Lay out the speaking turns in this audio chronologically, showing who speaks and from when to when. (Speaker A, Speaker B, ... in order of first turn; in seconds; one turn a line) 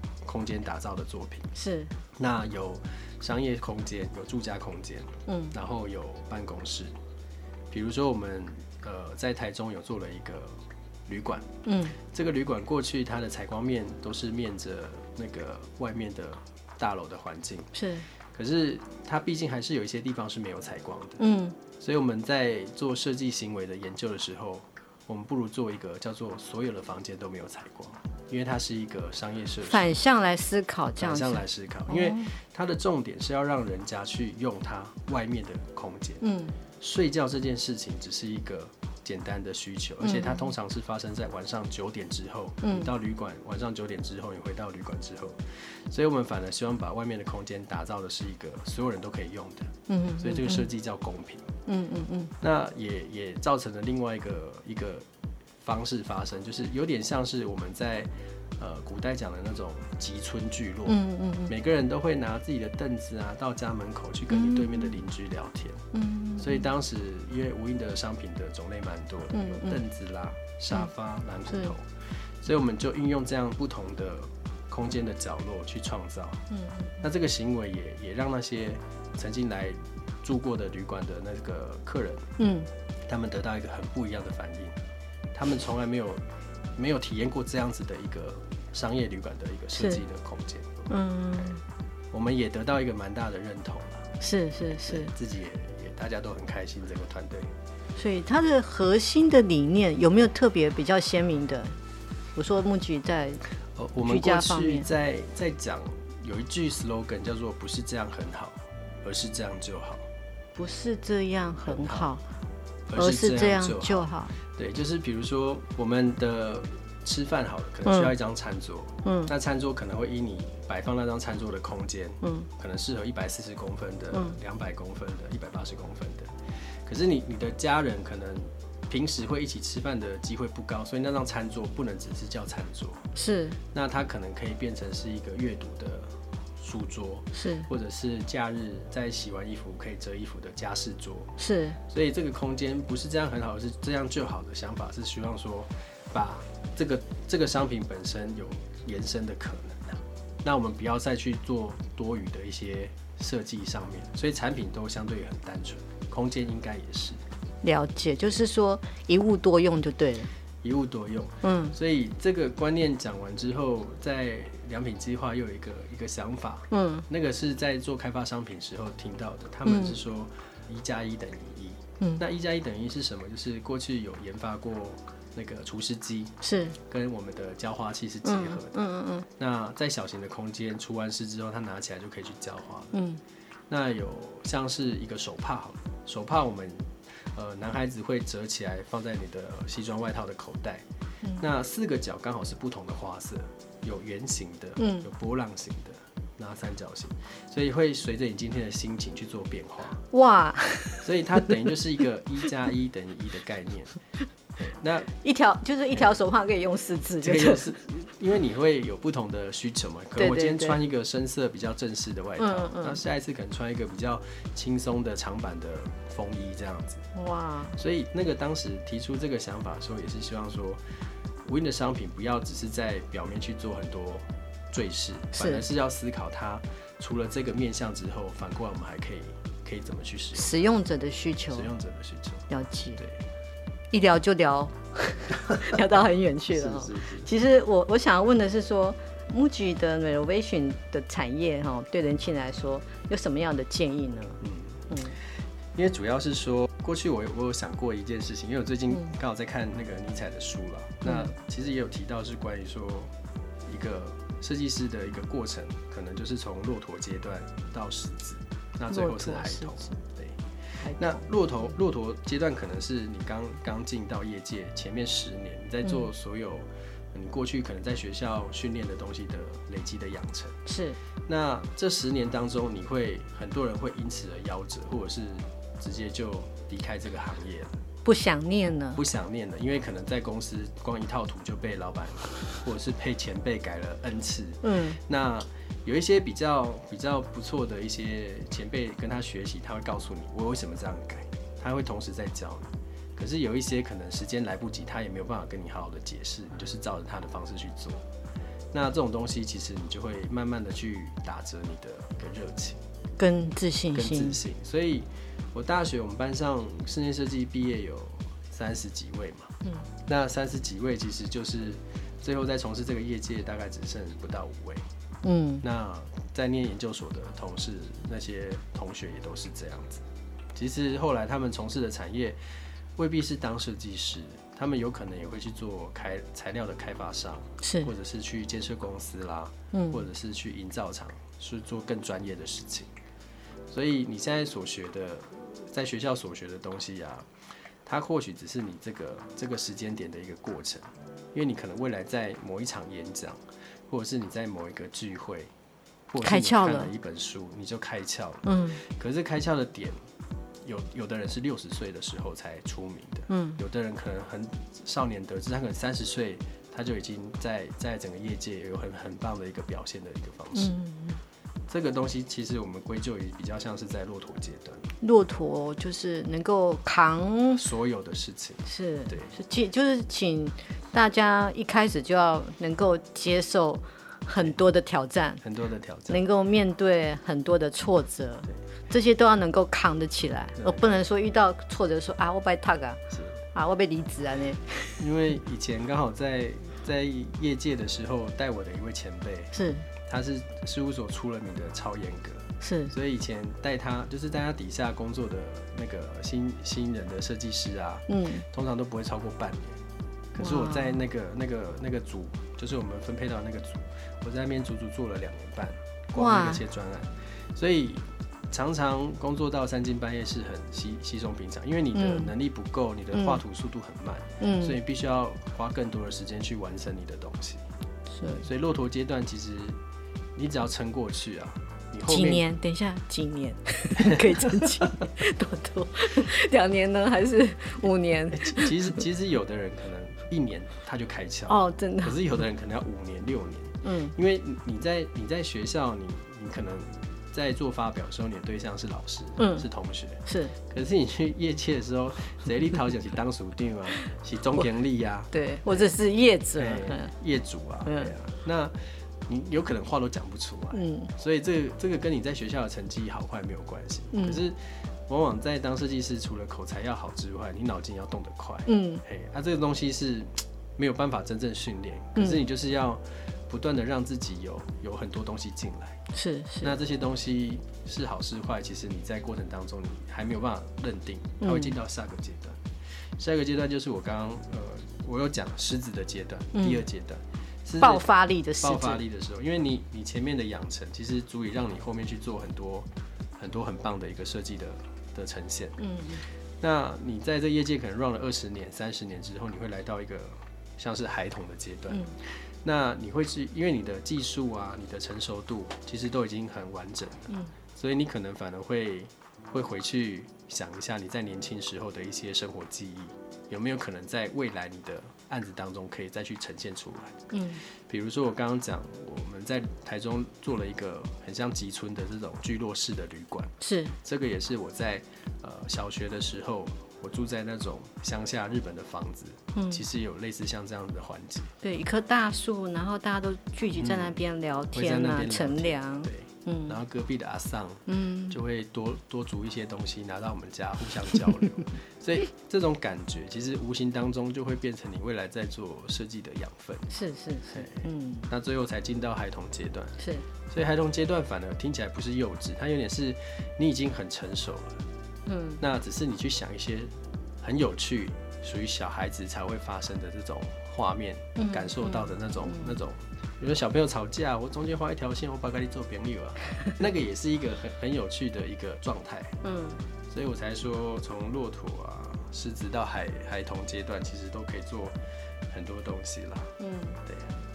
Speaker A: 0.2-1.5
Speaker B: 1.5-1.9
Speaker A: 2.1-6.9
Speaker B: 5.3-5.5
Speaker A: 7.7-11.5
Speaker B: 11.6-12.0
Speaker A: 12.0-17.7
Speaker B: 17.7-18.1
Speaker A: 18.3-21.2
Speaker B: 21.2-21.6
Speaker A: 21.8-29.9
Speaker B: 29.6-32.3
Speaker A: 31.0-36.2
Speaker B: 36.2-36.5
Speaker A: 36.8-51.5
Speaker B: 40.0-40.5
Speaker B: 42.6-42.9
Speaker B: 49.9-50.7
Speaker B: 51.7-52.3
Speaker A: 52.4-55.1
Speaker A: 55.6-65.8
Speaker B: 60.9-61.5
Speaker B: 64.3-65.0
Speaker B: 65.9-66.7
Speaker A: 66.4-76.4
Speaker B: 69.3-69.8
Speaker B: 76.5-77.0
Speaker A: 77.0-82.3
Speaker B: 82.4-82.7
Speaker A: 83.1-84.8
Speaker A: 85.3-90.9
Speaker B: 90.9-91.6
Speaker A: 92.1-94.1
Speaker B: 94.2-95.1
Speaker A: 94.8-97.5
Speaker B: 97.9-101.8
Speaker B: 102.3-103.4
Speaker A: 103.7-110.1
Speaker B: 104.0-104.9
Speaker B: 110.5-112.2
Speaker A: 111.6-112.1
Speaker A: 112.9-133.1
Speaker B: 113.0-114.3
Speaker B: 117.9-118.1
Speaker B: 119.0-119.3
Speaker B: 122.2-122.5
Speaker B: 133.1-133.6
Speaker A: 133.7-157.2
Speaker B: 137.3-137.7
Speaker B: 141.4-141.8
Speaker B: 157.6-160.3
Speaker A: 160.6-178.8
Speaker B: 161.4-161.7
Speaker B: 166.7-167.1
Speaker B: 169.7-169.9
Speaker B: 176.4-176.8
Speaker B: 178.2-179.2
Speaker A: 179.4-182.9
Speaker B: 182.9-183.2
Speaker A: 183.7-190.8
Speaker A: 191.4-200.0
Speaker B: 194.8-195.1
Speaker B: 200.1-201.1
Speaker A: 201.0-204.0
Speaker A: 204.6-205.1
Speaker B: 205.2-207.7
Speaker A: 207.2-217.1
Speaker B: 210.2-210.8
Speaker B: 212.4-213.0
Speaker B: 217.1-217.8
Speaker A: 217.8-220.9
Speaker A: 221.4-230.6
Speaker B: 225.4-225.6
Speaker B: 230.3-231.7
Speaker A: 231.5-233.2
Speaker B: 232.5-233.0
Speaker B: 233.9-245.2
Speaker A: 236.5-237.3
Speaker A: 244.4-253.1
Speaker B: 251.0-251.3
Speaker A: 253.6-270.6
Speaker B: 258.9-260.0
Speaker B: 260.8-261.3
Speaker B: 270.6-271.0
Speaker A: 271.3-277.8
Speaker B: 278.0-279.0
Speaker A: 278.9-298.0
Speaker B: 284.6-285.0
Speaker A: 298.7-302.8
Speaker B: 303.2-304.4
Speaker A: 303.9-309.5
Speaker A: 310.1-314.9
Speaker B: 315.2-315.6
Speaker A: 315.6-332.9
Speaker B: 327.6-327.9
Speaker B: 329.7-330.0
Speaker A: 333.7-337.3
Speaker A: 337.9-345.5
Speaker A: 346.1-350.0
Speaker B: 346.2-346.9
Speaker B: 348.4-348.8
Speaker A: 350.6-360.8
Speaker B: 353.3-353.6
Speaker B: 360.5-361.2
Speaker A: 361.7-364.9
Speaker B: 365.0-367.6
Speaker A: 367.6-369.4
Speaker B: 368.6-375.4
Speaker A: 375.4-376.2
Speaker B: 376.1-383.0
Speaker A: 380.6-381.0
Speaker A: 383.1-383.4
Speaker B: 383.5-385.0
Speaker A: 385.0-389.5
Speaker B: 389.5-389.9
Speaker A: 390.0-399.8
Speaker B: 392.6-392.9
Speaker B: 398.1-398.4
Speaker A: 400.3-417.6
Speaker B: 400.4-401.0
Speaker B: 406.1-406.6
Speaker B: 411.9-412.3
Speaker B: 413.1-413.4
Speaker B: 414.4-414.8
Speaker B: 418.1-418.5
Speaker A: 418.4-419.8
Speaker A: 420.4-422.4
Speaker B: 422.1-428.9
Speaker A: 424.0-424.9
Speaker A: 428.3-446.0
Speaker B: 431.5-432.1
Speaker B: 433.8-434.1
Speaker B: 439.4-439.7
Speaker B: 440.2-440.5
Speaker B: 445.3-447.1
Speaker A: 446.6-466.0
Speaker B: 447.9-448.1
Speaker B: 450.7-451.1
Speaker B: 454.1-454.4
Speaker B: 458.7-459.0
Speaker B: 462.1-462.4
Speaker B: 466.1-466.7
Speaker A: 466.6-485.8
Speaker B: 471.4-471.7
Speaker B: 476.5-476.8
Speaker B: 477.8-479.0
Speaker B: 485.8-486.2
Speaker A: 486.6-521.5
Speaker B: 491.9-492.1
Speaker B: 507.3-507.6
Speaker B: 513.6-514.0
Speaker B: 519.5-519.8
Speaker B: 521.6-526.8
Speaker A: 523.8-524.2
Speaker A: 524.7-536.9
Speaker B: 527.9-528.4
Speaker B: 536.9-538.3
Speaker A: 537.5-544.9
Speaker B: 540.0-540.2
Speaker B: 545.2-545.6
Speaker A: 545.6-559.4
Speaker B: 551.4-552.8
Speaker B: 559.4-559.9
Speaker A: 560.1-565.0
Speaker A: 565.5-566.5
Speaker B: 566.6-567.0
Speaker A: 567.0-567.4